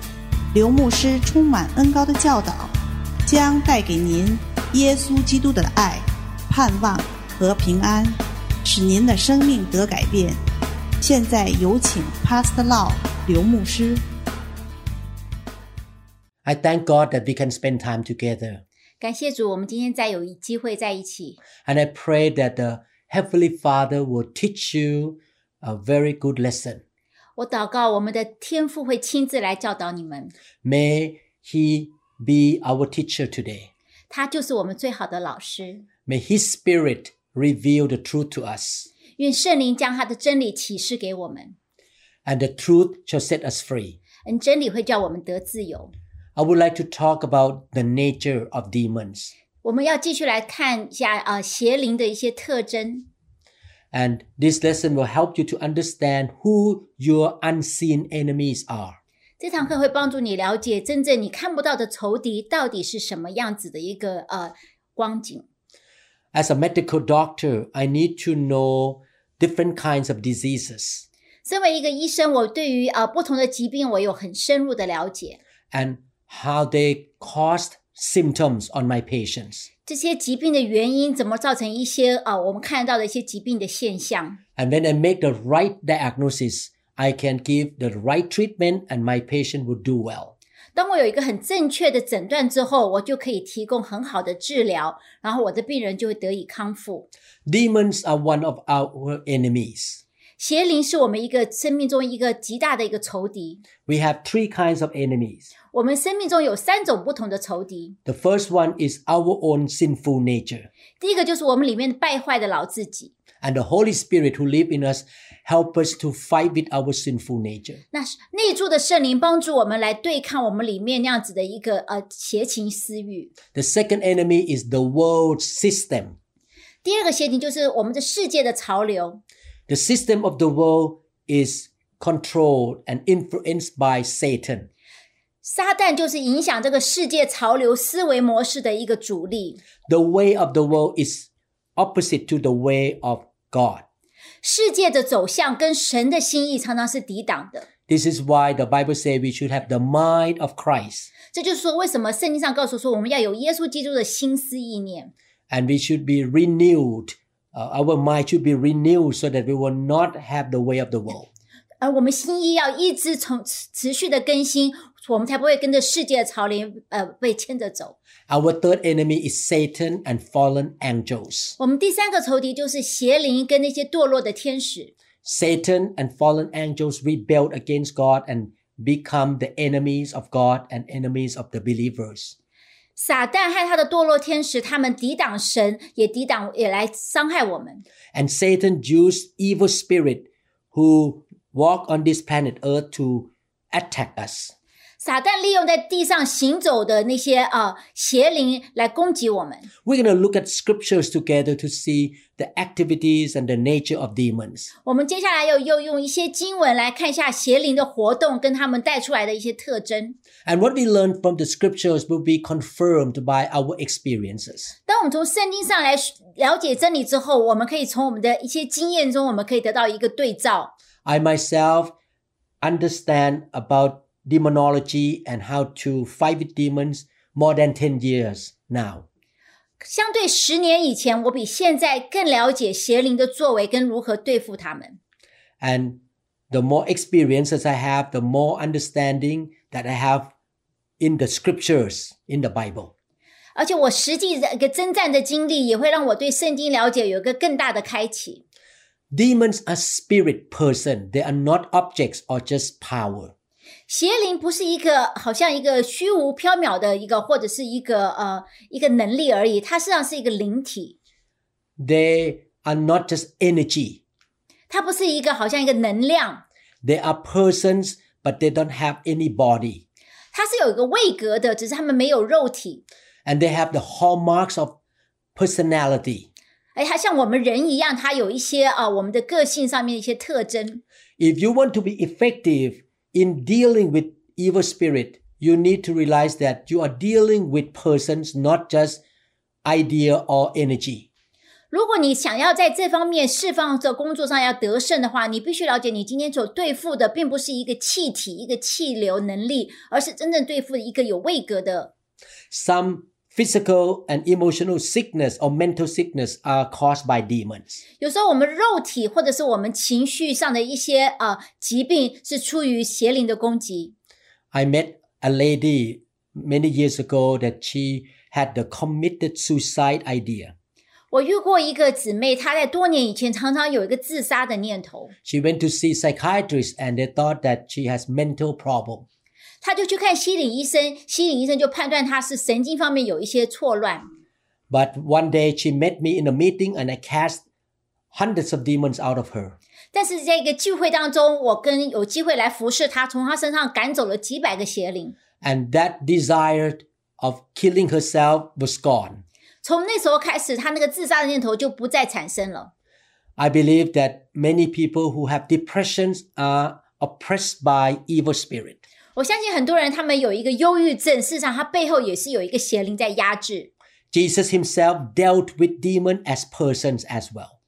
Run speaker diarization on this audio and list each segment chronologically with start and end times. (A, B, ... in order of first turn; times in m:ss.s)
0:00.5-0:02.7 A
0:03.3-0:10.4 A
0:11.0-0:14.0 A
0:16.4-0:18.6 B
0:19.0-0:21.4 C
0:21.7-0:26.8 B
0:27.4-0:30.3 C
0:30.6-0:33.7 B
0:34.1-0:35.8 C
0:36.1-0:38.9 B
0:39.2-0:41.6 C
0:42.2-0:44.0 B
0:44.2-0:45.9 C
0:46.4-0:49.3 B
0:49.6-0:53.1 C
0:53.9-0:59.0 B
0:59.4-1:05.4 C
1:06.3-1:11.0 B
1:11.4-1:15.4 C
1:15.7-1:19.7 B
1:19.9-1:24.4 C
1:24.6-1:30.3 B
1:30.8-1:37.1 C
1:37.4-1:40.0 B
1:40.4-1:43.6 C
1:43.9-1:45.5 B
1:45.7-1:48.0 C
1:48.1-1:50.7 B
1:51.0-1:53.1 C
1:53.4-1:57.8 B
1:57.9-2:03.3 C
2:03.5-2:06.2 B
2:06.8-2:09.2 C
2:09.7-2:14.7 B
2:15.4-2:19.6 C
2:19.9-2:23.8 B
2:24.4-2:27.7 C
2:27.9-2:31.1 B
2:31.3-2:35.1 C
2:35.5-2:41.3 B
2:41.8-2:48.0 C
2:48.3-2:51.6 B
2:51.6-2:54.9 C
2:55.2-3:02.3 B
3:03.0-3:07.8 C
3:08.1-3:14.5 B
3:15.0-3:19.7 C
3:19.8-3:24.7 B
3:24.8-3:30.2 C
3:30.4-3:34.7 B
3:34.9-3:40.7 C
3:41.0-3:41.9 B
3:42.6-3:49.0 B
3:49.8-3:55.0 C
3:55.6-4:00.3 B
4:01.0-4:02.9 B
4:03.6-4:08.4 C
4:09.1-4:13.3 B
4:13.9-4:20.9 C
4:21.8-4:24.0 B
4:24.7-4:26.4 C
4:26.8-4:29.8 B
4:30.3-4:32.8 C
4:33.2-4:34.8 B
4:35.4-4:36.3 B
4:36.8-4:40.8 C
4:41.2-4:49.0 B
4:49.6-4:51.1 B
4:51.7-5:01.9 C
5:02.5-5:07.8 B
5:08.0-5:13.9 C
5:14.5-5:20.5 B
5:21.1-5:25.1 C
5:25.2-5:29.1 B
5:29.6-5:34.1 C
5:34.7-5:37.4 B
5:38.1-5:39.6 B
5:39.9-5:45.2 C
5:45.4-5:49.2 B
5:49.6-5:52.7 C
5:53.4-5:58.8 B
5:59.2-6:03.7 C
6:04.1-6:07.6 B